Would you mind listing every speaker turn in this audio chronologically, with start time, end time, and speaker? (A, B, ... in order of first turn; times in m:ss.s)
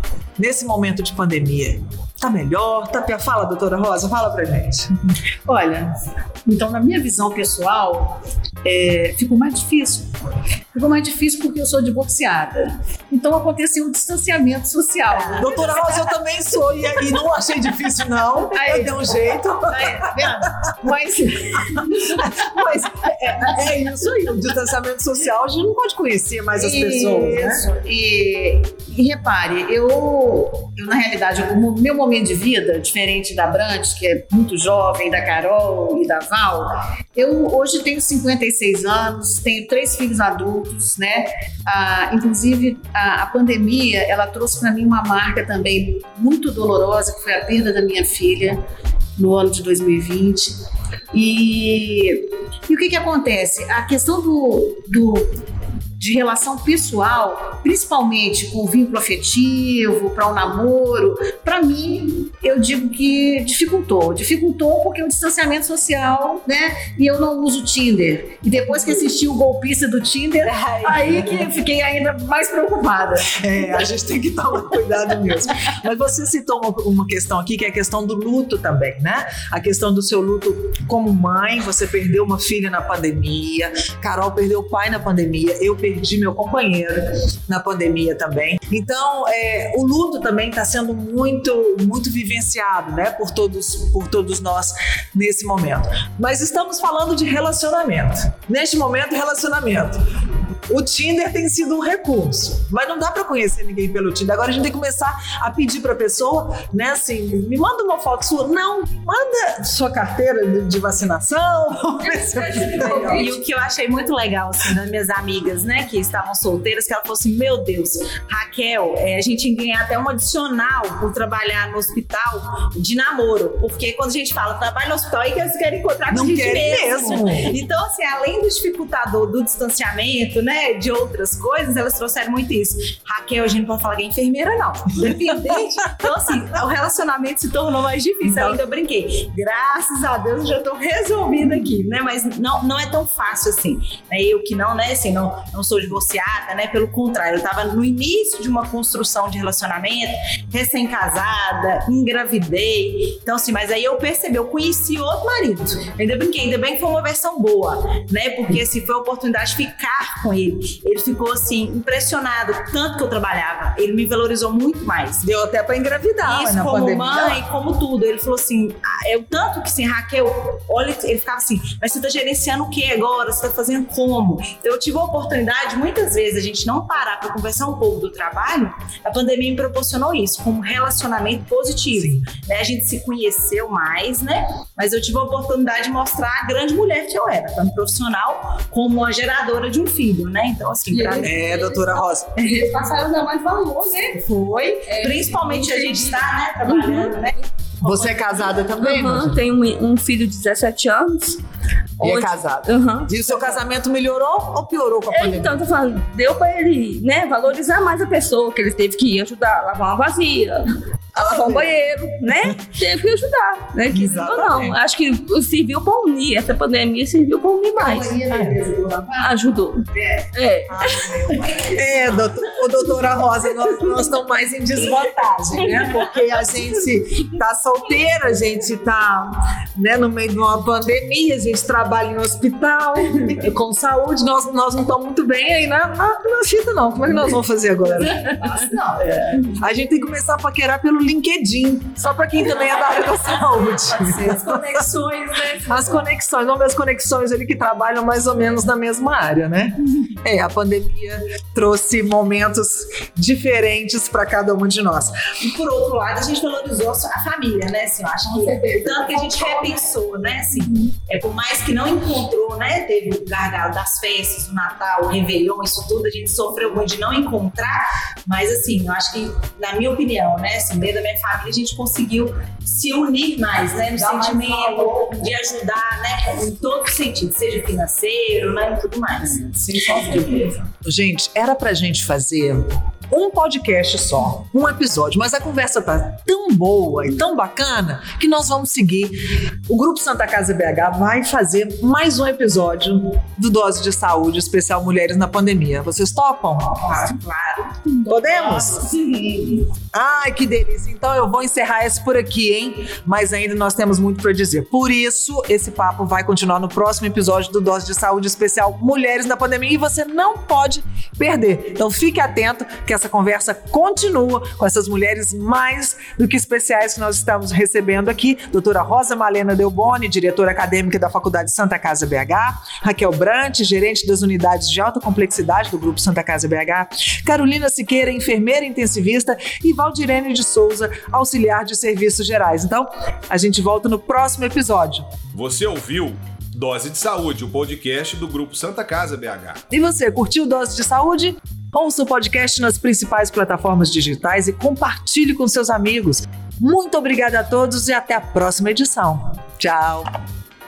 0:00.4-0:04.9 A
0:05.5-0:05.9 B
0:06.4-0:10.1 B
0:10.7-0:16.0 B
0:15.3-0:20.3 A
0:18.5-0:22.8 B
0:21.7-0:27.6 A
0:26.6-0:48.6 B
0:49.2-0:50.6 B
0:51.1-0:55.4 B
0:56.0-1:13.4 B
1:10.5-1:11.5 A
1:13.3-1:40.0 A
1:40.7-1:53.3 A
1:52.0-1:53.3 C
1:52.8-2:45.2 D
2:06.1-2:07.6 A
2:18.2-2:18.6 A
2:45.2-2:47.4 A
2:46.2-3:11.5 D
3:01.9-3:02.2 A
3:10.9-3:17.3 C
3:11.2-3:12.4 A
3:14.9-3:18.0 D
3:17.8-3:19.4 A
3:18.8-3:21.4 C
3:22.0-3:23.4 C
3:22.0-3:25.6 A
3:25.1-3:30.6 C
3:31.1-3:38.2 C
3:31.1-3:32.6 A
3:33.9-3:34.8 A
3:37.8-3:39.4 B
3:38.3-3:38.6 A
3:39.2-3:41.2 C
3:40.0-3:40.2 B
3:40.7-3:58.4 A
3:59.3-4:04.9 A
4:04.1-4:05.9 D
4:05.6-4:15.2 A
4:15.4-4:40.5 D
4:18.5-4:19.5 C
4:33.9-4:35.2 A
4:40.8-4:57.0 A
4:56.8-4:59.6 D
4:58.1-4:58.9 A
4:59.9-5:35.1 A
5:35.3-5:39.6 E
5:39.7-5:50.1 A